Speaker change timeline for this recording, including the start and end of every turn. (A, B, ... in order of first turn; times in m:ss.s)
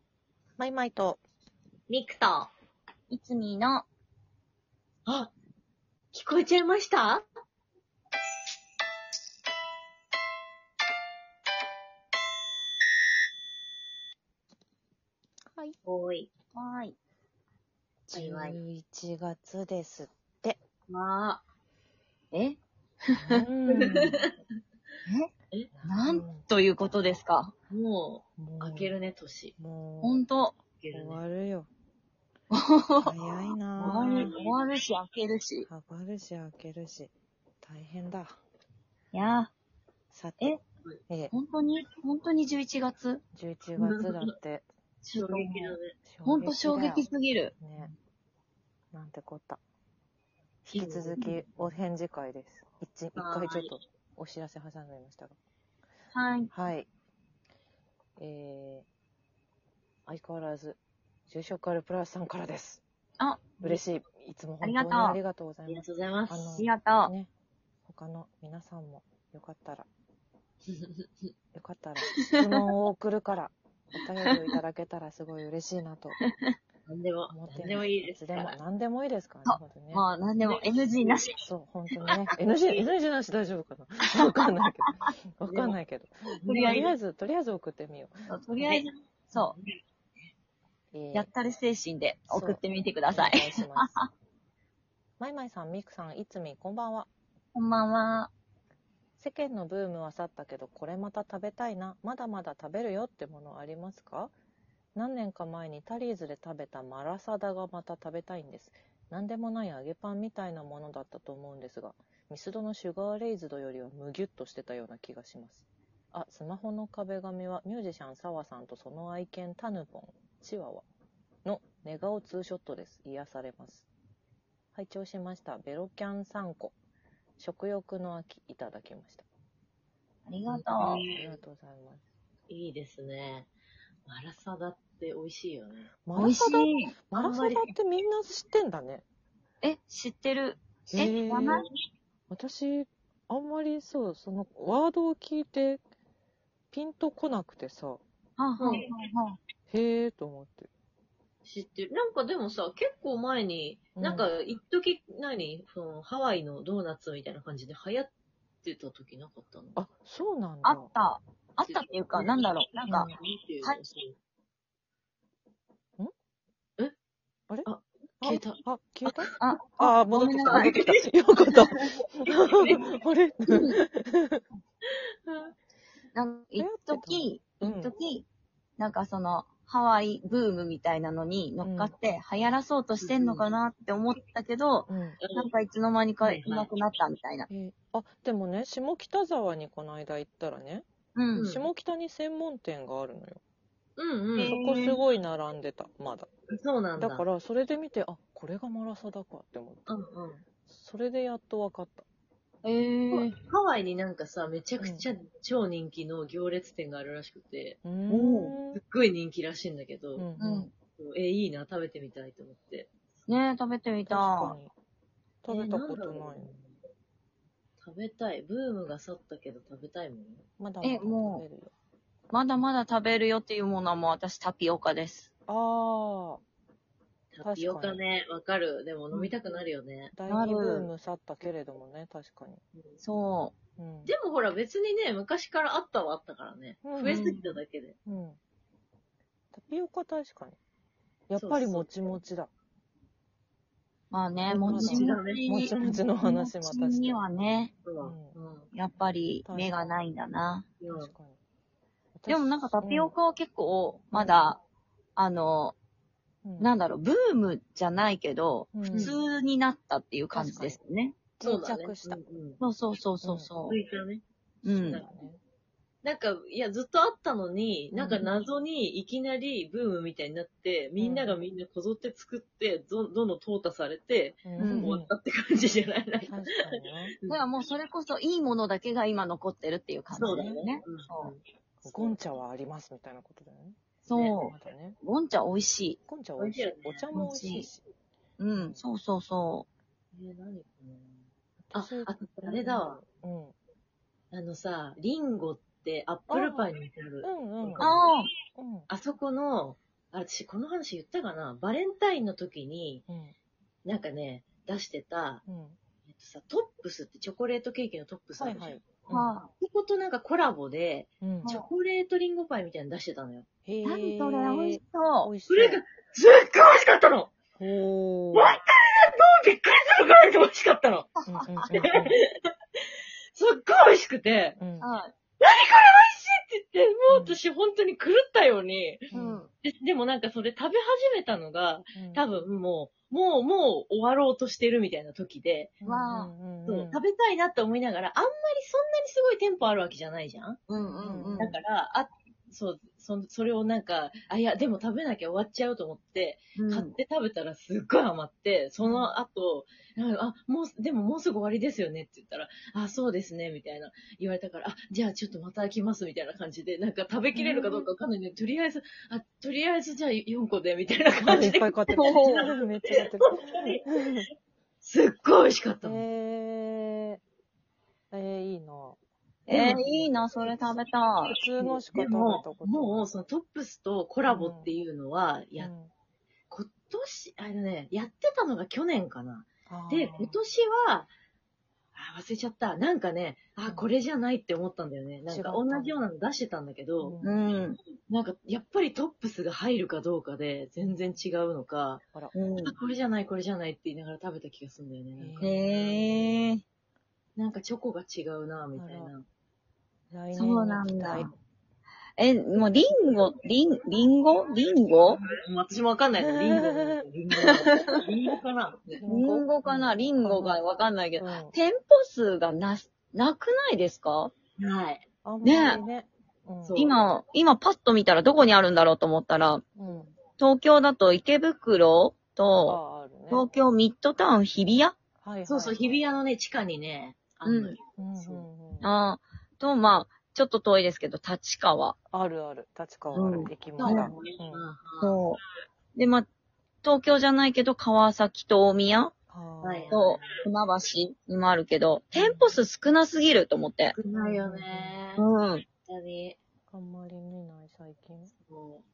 0:00.6-0:01.2 A
0:01.9-0:02.5 B
0:03.1-0:03.9 C
0:05.1-0:05.3 B
0:06.1-0:07.2 B
0:15.8-0:16.3 B
0:16.6-0:17.0 C
0:18.1-0:20.6 A
0:18.1-0:18.6 B
0:20.9-0:21.4 B
0:22.3-0:22.6 C
0:23.3-0:24.3 A
0:23.7-0:24.3 B
0:25.8-0:26.4 A
0:25.8-0:27.5 C
0:27.7-0:29.6 B
0:28.4-0:29.0 A
0:29.6-0:30.2 A
0:30.0-0:30.6 C
0:30.8-0:31.2 B
0:30.9-0:31.7 A
0:32.5-0:35.7 C
0:33.0-0:34.4 A
0:33.9-0:34.5 B
0:35.7-0:38.4 A
0:39.1-0:39.5 C
0:40.1-0:40.6 A
0:41.3-0:43.2 C
0:43.3-0:44.7 A
0:43.8-0:44.3 B
0:45.1-0:47.5 C
0:45.1-0:46.0 B
0:46.0-0:47.1 A
0:47.6-0:47.9 A
0:48.9-0:49.6 A
0:50.7-0:55.4 A
0:50.7-0:51.4 B
0:53.2-0:53.7 B
0:56.1-0:56.5 C
0:56.5-0:56.9 A
0:58.2-0:58.9 A
1:00.1-1:02.8 A
1:03.2-1:03.8 C
1:03.6-1:07.3 A
1:04.6-1:05.2 C
1:05.7-1:06.7 B
1:06.6-1:07.1 C
1:07.9-1:09.9 A
1:10.7-1:11.3 B
1:11.5-1:16.2 A
1:12.2-1:12.6 C
1:16.9-1:18.6 B
1:17.3-1:20.0 A
1:19.5-1:21.4 C
1:20.4-1:21.2 B
1:21.4-1:28.2 A
1:24.2-1:25.1 C
1:25.4-1:25.8 B
1:26.4-1:26.9 B
1:26.5-1:26.9 C
1:28.3-1:29.6 C
1:30.9-1:31.3 A
1:31.1-1:34.1 C
1:32.3-1:34.0 A
1:35.2-1:37.1 A
1:37.6-1:38.3 C
1:39.2-1:44.3 A
1:45.0-2:00.9 A
2:01.4-2:03.9 A
2:04.7-2:06.8 A
2:07.4-2:09.3 A
2:10.3-2:11.0 C
2:10.5-2:12.0 A
2:10.8-2:11.4 B
2:12.5-2:13.5 B
2:14.1-2:15.9 B
2:16.0-2:19.0 A
2:16.2-2:16.9 C
2:17.1-2:17.8 B
2:19.6-2:21.7 C
2:20.9-2:21.6 A
2:22.3-2:25.8 A
2:26.7-2:28.0 A
2:28.4-2:29.4 C
2:28.6-2:28.9 B
2:29.7-2:30.7 A
2:31.4-2:38.1 B
2:34.0-2:34.3 A
2:38.6-2:39.8 B
2:39.8-2:40.9 A
2:40.6-2:43.1 C
2:41.6-2:42.4 B
2:42.9-2:44.2 B
2:47.7-2:49.4 B
2:48.2-2:54.4 A
2:49.4-2:50.8 C
2:50.1-2:52.9 B
2:53.5-2:53.8 C
2:55.3-2:55.5 B
2:56.1-2:58.3 C
2:56.6-2:57.9 A
2:58.8-3:07.5 C
3:01.6-3:01.9 A
3:03.0-3:03.5 B
3:04.9-3:05.2 A
3:05.2-3:05.5 B
3:06.2-3:06.7 B
3:07.5-3:10.8 A
3:11.2-3:11.5 C
3:11.3-3:11.7 B
3:11.4-3:13.4 A
3:14.0-3:14.6 B
3:14.4-3:15.0 C
3:14.5-3:16.3 A
3:16.6-3:17.3 B
3:17.0-3:19.9 A
3:19.9-3:20.4 B
3:20.7-3:22.0 A
3:22.6-3:23.4 C
3:23.1-3:27.8 B
3:24.8-3:25.1 A
3:27.8-3:28.8 A
3:28.1-3:28.6 C
3:28.7-3:30.3 B
3:30.2-3:30.7 A
3:30.4-3:30.7 C
3:31.0-3:32.9 B
3:33.3-3:34.6 C
3:34.1-3:34.7 A
3:35.4-3:36.5 A
3:35.5-3:36.8 B
3:37.8-3:40.4 B
3:40.6-3:41.7 A
3:40.8-3:41.4 C
3:42.3-3:45.3 C
3:45.5-3:46.4 A
3:47.3-3:50.1 B
3:47.4-3:48.0 A
3:50.1-3:52.6 A
3:50.3-3:50.9 C
3:52.8-3:53.0 B
3:53.0-3:53.5 C
3:53.8-3:54.1 A
3:54.1-3:58.0 B
3:56.8-3:57.5 A
3:57.1-3:57.6 C
3:58.1-3:58.4 A
3:59.5-4:00.6 A
4:01.3-4:02.5 A
4:01.4-4:02.2 B
4:04.1-4:07.8 C
4:04.5-4:07.2 A
4:04.5-4:06.0 B
4:07.8-4:08.7 B
4:08.0-4:08.4 A
4:08.7-4:10.7 C
4:09.4-4:09.7 A
4:10.8-4:11.1 B
4:10.9-4:11.4 A
4:12.1-4:13.1 A
4:12.3-4:14.6 C
4:14.1-4:14.5 A
4:15.2-4:15.8 C
4:16.4-4:16.7 A
4:16.6-4:21.2 C
4:18.7-4:19.2 A
4:18.9-4:19.2 B
4:20.3-4:20.8 A
4:21.4-4:22.2 A
4:21.4-4:22.6 B
4:22.6-4:23.8 C
4:23.2-4:23.5 A
4:23.7-4:24.2 B
4:24.6-4:25.0 C
4:24.6-4:25.4 A
4:24.8-4:25.1 B
4:26.0-4:36.5 B
4:27.9-4:28.3 A
4:31.0-4:31.4 A
4:34.4-4:35.1 A
4:34.6-4:35.0 C
4:36.3-4:37.2 A
4:37.2-4:37.5 B
4:37.3-4:41.3 C
4:40.1-4:42.2 B
4:40.3-4:40.6 A
4:41.8-4:43.8 A
4:44.0-4:46.0 C
4:44.3-4:45.0 A
4:46.1-4:47.8 A
4:46.4-4:47.2 B
4:47.1-4:47.7 C
4:48.4-4:49.7 C
4:48.5-4:48.8 A
4:50.1-4:53.0 B
4:51.7-4:53.6 A
4:54.3-4:58.0 B
4:56.3-4:56.7 A
4:57.2-4:58.9 A
4:57.8-4:58.3 C
4:58.9-5:03.0 B
5:03.1-5:03.3 A
5:03.8-5:05.4 B
5:05.5-5:05.8 A
5:06.1-5:08.8 B
5:08.4-5:09.4 A
5:09.1-5:09.5 C
5:09.6-5:13.5 B
5:11.2-5:11.6 A
5:13.7-5:15.8 A
5:13.8-5:15.3 C
5:15.5-5:17.4 B
5:17.6-5:18.6 A
5:18.3-5:21.1 B
5:21.2-5:21.7 C
5:21.3-5:22.2 A
5:21.7-5:22.3 B
5:23.4-5:24.6 B
5:24.6-5:24.9 A
5:24.8-5:25.1 C
5:25.4-5:29.0 B
5:27.1-5:27.4 A
5:29.1-5:29.5 A
5:29.1-5:29.5 C
5:29.6-5:35.8 B
5:31.9-5:32.2 A
5:35.8-5:37.0 A
5:35.8-5:36.3 C
5:36.7-5:40.6 B
5:40.7-5:41.6 C
5:40.8-5:41.6 A
5:41.4-6:03.9 B
5:46.6-5:47.0 C
5:48.8-5:49.1 A
5:57.4-5:57.9 A
6:01.2-6:04.3 A
6:02.0-6:02.5 C
6:04.8-6:06.0 B
6:05.8-6:07.2 A
6:08.1-6:10.0 A
6:09.5-6:11.4 C
6:09.5-6:09.8 B
6:11.3-6:13.2 A
6:11.3-6:15.7 B
6:14.3-6:14.8 A
6:15.6-6:15.9 A
6:16.5-6:21.1 B
6:19.7-6:20.4 A
6:22.0-6:27.2 B
6:25.3-6:26.0 A
6:27.0-6:27.4 A
6:27.2-6:27.8 C
6:28.1-6:32.0 B
6:32.3-6:32.8 C
6:32.6-6:36.2 B
6:35.2-6:35.6 A
6:35.4-6:36.6 C
6:37.4-6:39.2 B
6:38.8-6:39.1 A
6:40.1-6:41.3 A
6:40.3-6:41.3 C
6:42.2-6:45.2 C
6:45.3-6:49.0 B
6:46.2-6:47.0 A
6:47.4-6:47.9 C
6:48.9-6:50.6 A
6:49.1-6:54.3 C
6:51.2-6:51.6 A
6:54.6-6:55.0 B
6:55.2-6:56.8 A
6:55.4-6:55.8 C
6:56.6-6:57.0 B
6:56.8-6:59.7 C
6:59.8-7:00.1 A
7:00.4-7:02.8 C
7:02.6-7:03.5 A
7:03.3-7:05.0 C
7:05.2-7:06.0 A
7:05.5-7:08.5 B
7:07.4-7:07.8 C
7:08.0-7:08.9 A
7:08.8-7:12.0 C
7:12.1-7:14.7 A
7:13.1-7:14.1 C
7:13.8-7:15.2 B
7:15.0-7:15.4 C
7:16.0-7:16.3 C
7:16.8-7:19.1 C
7:19.3-7:20.1 A
7:19.6-7:20.3 B
7:19.9-7:24.0 C
7:22.2-7:22.6 A
7:24.0-7:25.3 B
7:24.1-7:25.0 A
7:25.2-7:25.6 C
7:25.9-7:26.4 B
7:26.7-7:28.3 A
7:28.4-7:28.8 B